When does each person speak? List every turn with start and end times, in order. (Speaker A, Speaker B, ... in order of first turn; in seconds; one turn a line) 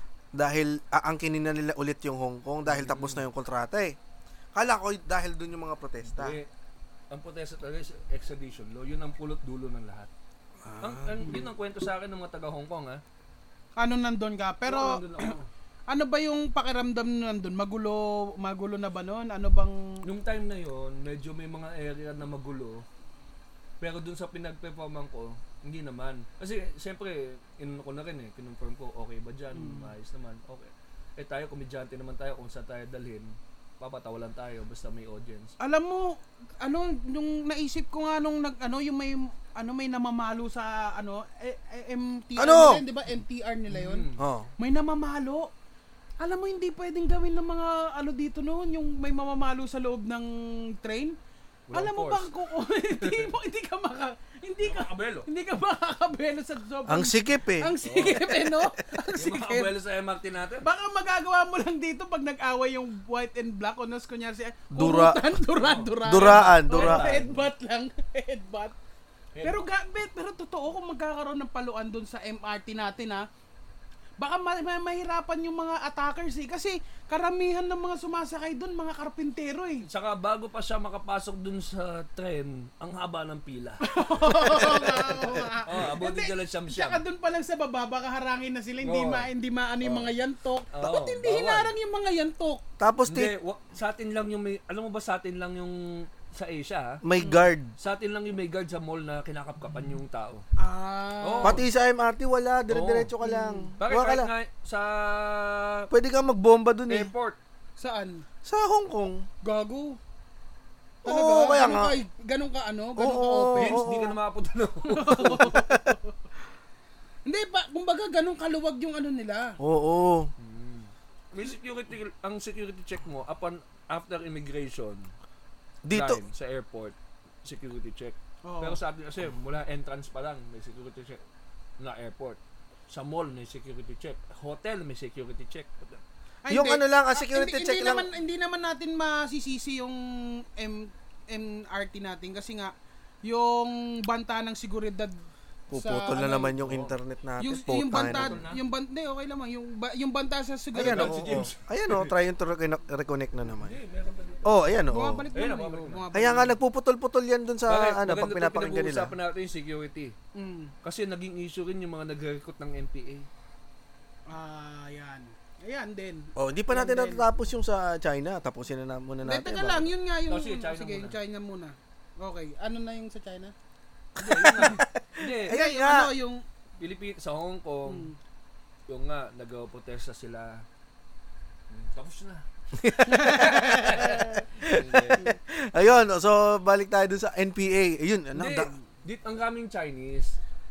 Speaker A: 0.3-4.0
Speaker B: 2.6-3.2
Speaker A: 4.5-6.4
Speaker B: 6.0-6.5
Speaker B: 7.1-10.1
Speaker A: 10.6-11.4
Speaker B: 10.8-13.0
Speaker C: 13.8-15.3
Speaker B: 14.7-15.5
Speaker C: 15.9-20.0
Speaker B: 20.0-22.8
Speaker B: 23.8-35.5
Speaker C: 29.5-29.9
Speaker C: 35.6-44.0
Speaker A: 42.4-42.8
Speaker B: 43.7-44.2
Speaker A: 44.2-44.5
Speaker C: 44.6-45.5
Speaker C: 46.2-51.1
Speaker B: 51.7-52.3
Speaker C: 51.7-59.7
Speaker B: 53.0-53.3
Speaker B: 54.6-55.3
Speaker A: 56.9-57.7
Speaker B: 57.8-58.6
Speaker B: 59.1-60.6
Speaker C: 60.6-68.7
Speaker A: 64.7-65.3
Speaker B: 65.5-67.5
Speaker A: 66.0-67.1
Speaker B: 69.3-69.6
Speaker C: 69.4-73.2
Speaker C: 74.2-79.8
Speaker B: 79.9-85.1
Speaker C: 83.8-92.6
Speaker B: 85.6-87.0
Speaker B: 88.8-89.3
Speaker B: 90.7-91.7
Speaker A: 92.8-93.3
Speaker B: 93.1-97.0
Speaker A: 97.0-97.7
Speaker B: 97.8-100.4
Speaker C: 100.6-101.6
Speaker B: 101.2-101.6
Speaker A: 101.4-104.3
Speaker B: 102.7-103.1
Speaker C: 103.2-103.7
Speaker B: 103.8-105.9
Speaker A: 105.9-107.1
Speaker B: 106.9-107.4
Speaker C: 107.8-108.2
Speaker A: 108.4-109.3
Speaker C: 109.4-110.0
Speaker A: 111.0-112.0
Speaker C: 111.0-113.8
Speaker A: 113.0-114.2
Speaker B: 113.6-115.5
Speaker C: 114.9-116.1
Speaker A: 115.5-115.9
Speaker C: 117.2-119.5
Speaker A: 119.6-120.3
Speaker B: 120.4-125.1
Speaker A: 125.8-126.2
Speaker B: 125.9-131.2
Speaker C: 128.4-128.8
Speaker B: 131.8-136.0
Speaker C: 136.4-142.7
Speaker A: 136.5-138.1
Speaker C: 143.2-145.1
Speaker A: 145.7-148.4
Speaker C: 145.7-146.5
Speaker B: 146.6-146.9
Speaker C: 147.4-151.3
Speaker B: 147.9-148.6
Speaker A: 150.7-153.8
Speaker B: 150.8-152.1
Speaker B: 153.5-154.6
Speaker A: 154.4-155.2
Speaker C: 154.9-156.6
Speaker B: 155.3-156.0
Speaker A: 156.1-159.1
Speaker B: 157.7-160.1
Speaker C: 160.3-160.7
Speaker B: 160.8-163.3
Speaker C: 164.3-167.2
Speaker A: 166.3-169.9
Speaker C: 169.2-173.5
Speaker B: 170.3-171.2
Speaker A: 174.2-176.1
Speaker B: 174.2-175.5
Speaker C: 175.5-176.4
Speaker B: 176.8-178.1
Speaker C: 177.8-178.2
Speaker B: 178.9-180.6
Speaker B: 181.7-182.4
Speaker A: 182.8-188.7
Speaker C: 183.0-184.4
Speaker B: 183.2-185.2
Speaker B: 188.3-190.4